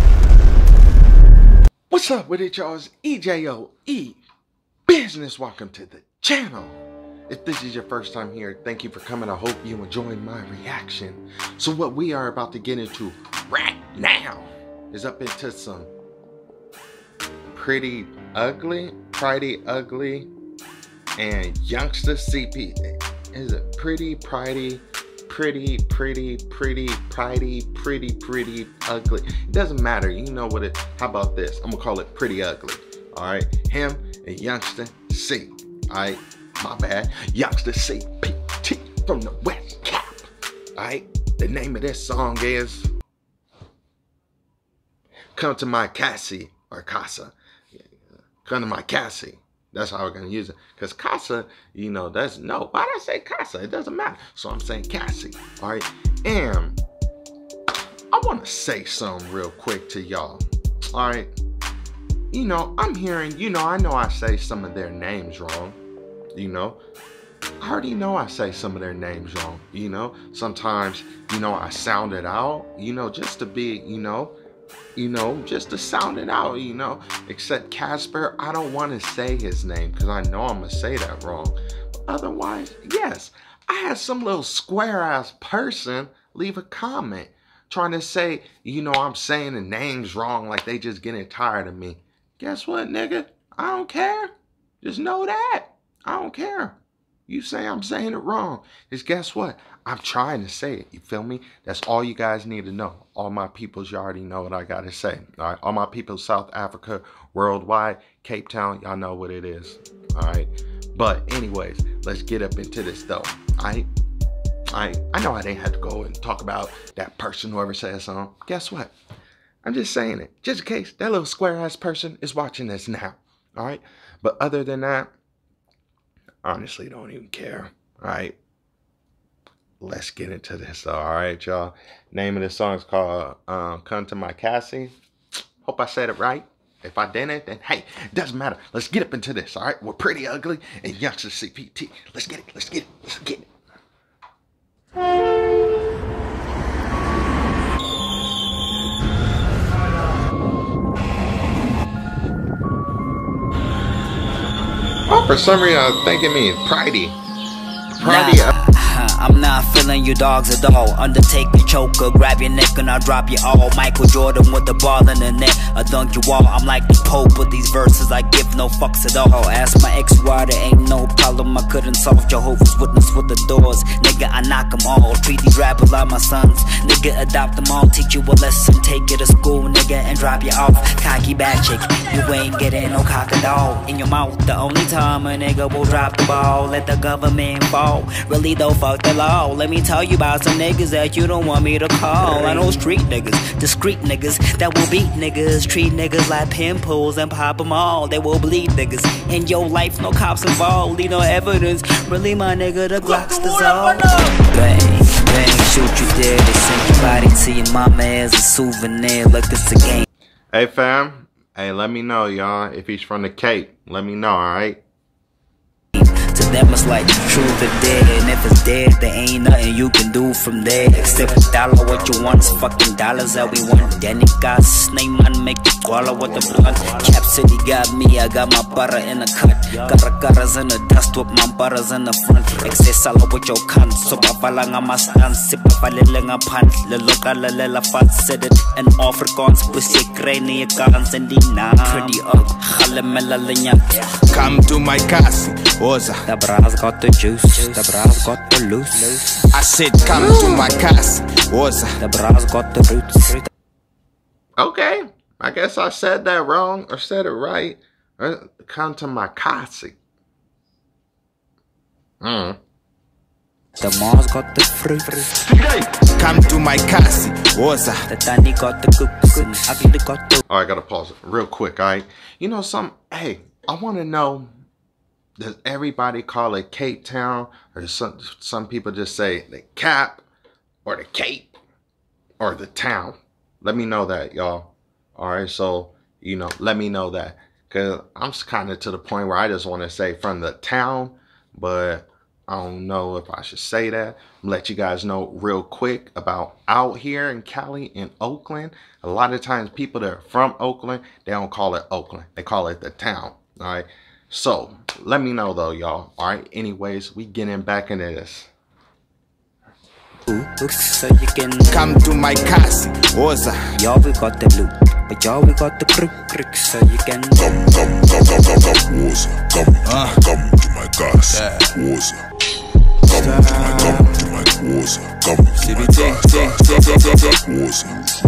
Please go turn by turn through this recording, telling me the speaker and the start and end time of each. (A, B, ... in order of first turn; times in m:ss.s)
0:01.9-0:04.2 A
0:04.9-0:15.9 A
0:17.5-0:20.3 A
0:21.2-0:42.9 A
0:45.3-0:47.8 A
0:48.4-0:56.8 A
0:58.1-1:01.3 A
1:02.3-1:05.8 A
1:06.3-1:06.8 A
1:07.6-1:14.3 A
1:15.0-1:34.3 A
1:34.8-1:53.9 A
1:54.7-1:58.9 A
1:59.6-2:05.1 A
2:06.4-2:08.4 A
2:09.8-2:14.9 A
2:15.6-2:23.5 A
2:35.1-2:37.2 A
2:37.9-2:38.6 A
2:38.0-3:30.0 B
3:30.5-3:34.8 A
3:35.9-4:04.2 B
3:41.9-3:42.5 C
3:46.1-3:47.0 C
4:04.3-4:06.2 D
4:06.2-4:09.4 B
4:09.5-4:11.9 D
4:10.1-4:10.7 A
4:12.0-4:13.5 B
4:14.6-4:20.0 A
4:22.2-4:22.6 A
4:23.8-4:25.4 B
4:25.5-4:28.0 D
4:28.1-4:30.4 B
4:30.5-4:34.5 A
4:35.4-4:40.2 A
4:40.8-4:41.5 A
4:42.4-5:08.5 A
5:10.3-5:11.8 B
5:11.7-5:13.6 D
5:13.8-5:17.5 B
5:17.4-5:22.2 C
5:19.8-5:21.8 D
5:23.1-5:24.3 D
5:23.1-5:28.1 C
5:25.6-5:27.4 D